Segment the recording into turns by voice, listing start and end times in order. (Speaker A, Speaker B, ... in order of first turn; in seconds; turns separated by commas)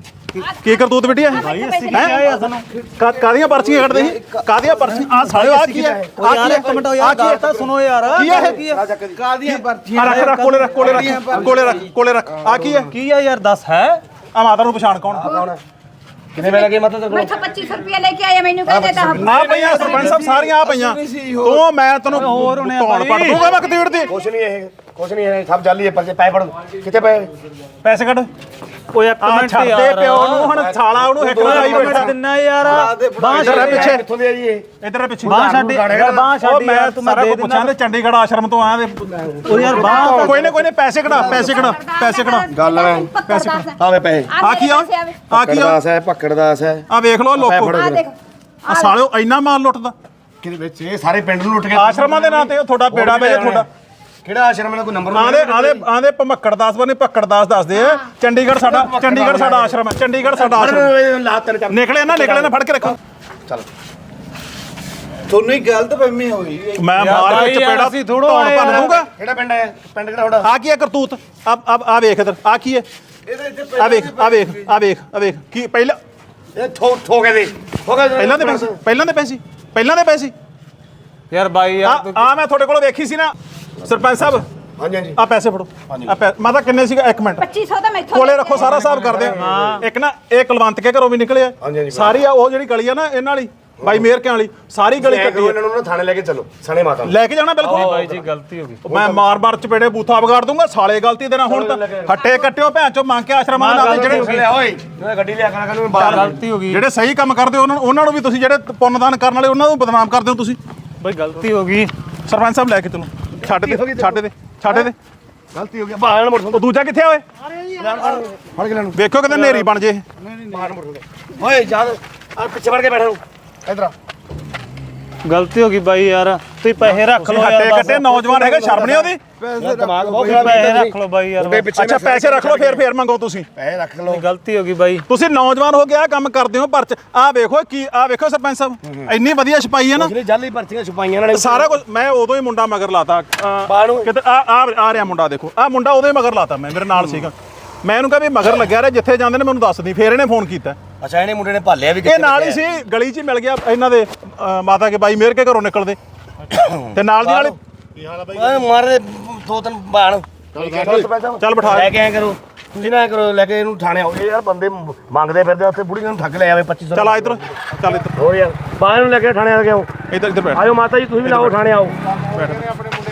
Speaker A: 0.5-2.1, Speaker B: 1.3-2.6, Speaker C: 1.4-2.2, Speaker D: 2.3-5.1, Speaker A: 3.0-7.4, Speaker E: 5.3-6.1, Speaker B: 6.2-8.8, Speaker A: 8.2-8.6, Speaker E: 8.7-9.2, Speaker D: 9.1-11.7, Speaker A: 9.9-12.9, Speaker B: 10.0-11.5, Speaker E: 11.3-11.8, Speaker B: 12.8-14.0, Speaker A: 14.3-15.3, Speaker E: 15.2-15.6, Speaker E: 16.4-17.4, Speaker C: 16.4-20.1, Speaker E: 18.7-19.3, Speaker D: 19.0-21.6, Speaker A: 19.2-24.1, Speaker B: 22.1-23.5, Speaker C: 23.4-23.9, Speaker E: 24.1-27.3, Speaker A: 27.8-28.3, Speaker B: 28.9-30.5, Speaker A: 29.2-32.1, Speaker E: 30.5-32.1, Speaker B: 31.3-33.9, Speaker D: 32.6-34.0, Speaker E: 33.4-34.7, Speaker A: 33.4-34.0, Speaker A: 34.8-42.5, Speaker E: 35.2-36.3, Speaker B: 35.2-37.7, Speaker E: 39.1-40.6, Speaker B: 39.5-40.4, Speaker C: 39.9-40.2, Speaker C: 41.0-43.8, Speaker E: 41.2-41.5, Speaker E: 42.5-44.4, Speaker A: 43.2-43.6, Speaker C: 44.3-45.3, Speaker A: 44.4-45.8, Speaker E: 45.3-46.8, Speaker A: 46.9-47.8, Speaker E: 47.4-48.0, Speaker C: 47.7-48.1, Speaker C: 48.7-49.0, Speaker A: 48.7-49.9, Speaker E: 50.4-53.7, Speaker A: 51.7-53.7, Speaker E: 54.2-55.8, Speaker A: 55.1-61.0, Speaker E: 58.5-59.8, Speaker E: 60.3-62.5, Speaker A: 61.7-63.0, Speaker D: 65.3-67.5, Speaker A: 66.8-69.1, Speaker B: 67.0-69.0, Speaker E: 68.6-70.5, Speaker A: 70.4-72.9, Speaker D: 73.3-74.6, Speaker A: 73.8-76.0, Speaker E: 76.5-78.8, Speaker A: 78.2-80.3, Speaker B: 81.3-82.3, Speaker A: 81.8-84.5, Speaker E: 84.8-85.2, Speaker A: 85.2-87.5, Speaker C: 87.4-89.0, Speaker A: 88.1-95.6, Speaker E: 88.8-89.6, Speaker B: 89.3-89.8, Speaker E: 91.6-92.2, Speaker E: 93.8-94.1, Speaker E: 95.0-98.2, Speaker A: 97.0-98.0, Speaker B: 97.6-98.8, Speaker A: 98.8-104.4, Speaker E: 98.9-99.2, Speaker E: 101.5-102.3, Speaker B: 103.5-104.5, Speaker E: 103.7-106.4, Speaker B: 105.9-106.8, Speaker A: 106.0-110.6, Speaker B: 111.0-111.9, Speaker A: 112.3-114.9, Speaker E: 113.5-114.9, Speaker E: 115.5-116.6, Speaker A: 116.5-117.2, Speaker E: 117.7-119.6, Speaker A: 119.0-120.0, Speaker D: 120.2-120.7, Speaker E: 120.5-123.9, Speaker B: 125.2-128.1, Speaker A: 126.9-129.2, Speaker E: 128.1-129.0, Speaker D: 128.2-130.8, Speaker E: 129.6-132.8, Speaker B: 130.2-131.7, Speaker A: 131.7-133.5, Speaker E: 133.6-134.2, Speaker B: 134.1-135.1, Speaker A: 135.1-140.1, Speaker E: 138.9-139.1, Speaker E: 139.9-141.8, Speaker A: 141.3-150.8, Speaker E: 143.7-144.1, Speaker E: 147.0-147.3, Speaker E: 151.0-152.6, Speaker A: 152.0-156.0, Speaker E: 156.5-167.6, Speaker A: 156.9-157.6, Speaker A: 161.4-161.9, Speaker A: 166.9-168.2, Speaker E: 168.2-170.0, Speaker A: 170.1-170.7, Speaker E: 170.5-172.0, Speaker A: 171.2-171.6, Speaker A: 172.3-172.7